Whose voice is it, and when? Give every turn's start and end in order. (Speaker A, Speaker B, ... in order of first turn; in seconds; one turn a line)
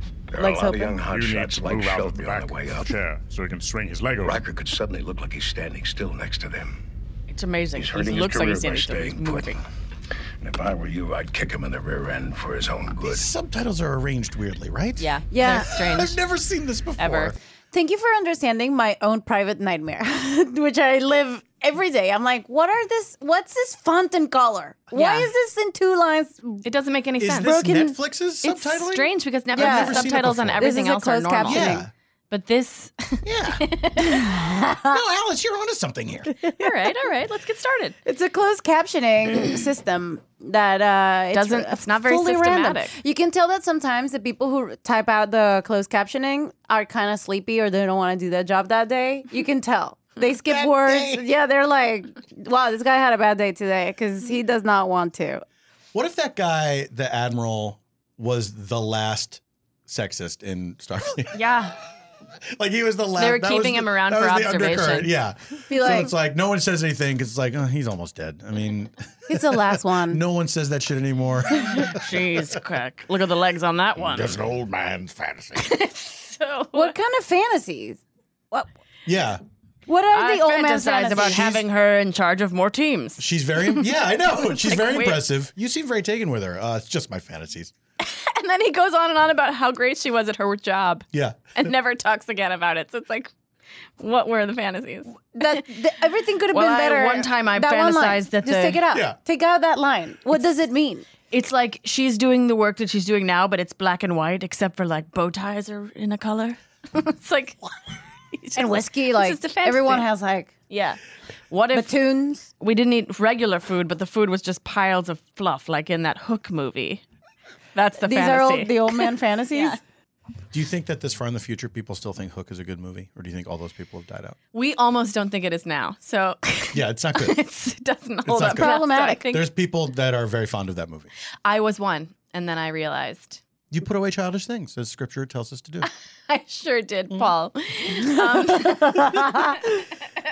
Speaker A: 0.3-2.9
Speaker B: 0.4-1.0
Speaker C: 1.1-4.4
Speaker A: 4.2-6.8
Speaker D: 7.3-9.6
Speaker A: 7.8-9.6
Speaker A: 10.4-13.3
Speaker E: 13.0-17.4
Speaker D: 15.0-16.2
Speaker B: 15.3-15.7
Speaker D: 17.0-17.4
Speaker B: 17.7-26.6
Speaker D: 24.9-25.3
Speaker D: 26.6-27.9
Speaker E: 27.2-30.7
Speaker B: 27.4-27.9
Speaker D: 28.4-31.7
Speaker B: 29.5-31.9
Speaker E: 31.4-31.9
Speaker D: 32.3-34.2
Speaker E: 33.2-33.6
Speaker B: 34.0-35.0
Speaker E: 34.9-36.3
Speaker B: 36.5-36.9
Speaker D: 36.6-38.0
Speaker B: 38.0-55.4
Speaker D: 41.3-42.9
Speaker E: 50.4-51.3
Speaker E: 55.9-61.3
Speaker D: 61.3-61.8
Speaker E: 62.5-72.0
Speaker D: 63.2-65.1
Speaker B: 65.7-66.1
Speaker B: 69.3-70.2
Speaker D: 71.6-74.5
Speaker A: 75.0-75.4
Speaker D: 75.6-76.9
Speaker B: 76.7-78.0
Speaker E: 79.1-79.4
Speaker B: 79.9-81.6
Speaker D: 80.1-83.9
Speaker E: 81.2-81.6
Speaker E: 83.2-87.7
Speaker D: 84.4-85.2
Speaker D: 88.0-93.3
Speaker E: 91.1-91.5
Speaker D: 94.0-95.6
Speaker B: 95.3-101.1
Speaker D: 96.5-98.8
Speaker E: 98.9-99.2
Speaker D: 101.3-107.6
Speaker D: 108.3-110.1
Speaker B: 108.6-110.5
Speaker D: 110.7-111.0
Speaker D: 111.5-112.0
Speaker B: 111.7-112.5
Speaker D: 112.5-117.0
Speaker D: 117.7-119.8
Speaker B: 118.0-119.8
Speaker E: 120.5-124.4
Speaker D: 124.5-129.4
Speaker E: 126.7-127.4
Speaker E: 128.2-131.1
Speaker B: 128.4-129.3
Speaker D: 131.4-133.4
Speaker E: 133.7-135.9
Speaker D: 136.3-139.3
Speaker B: 137.9-139.8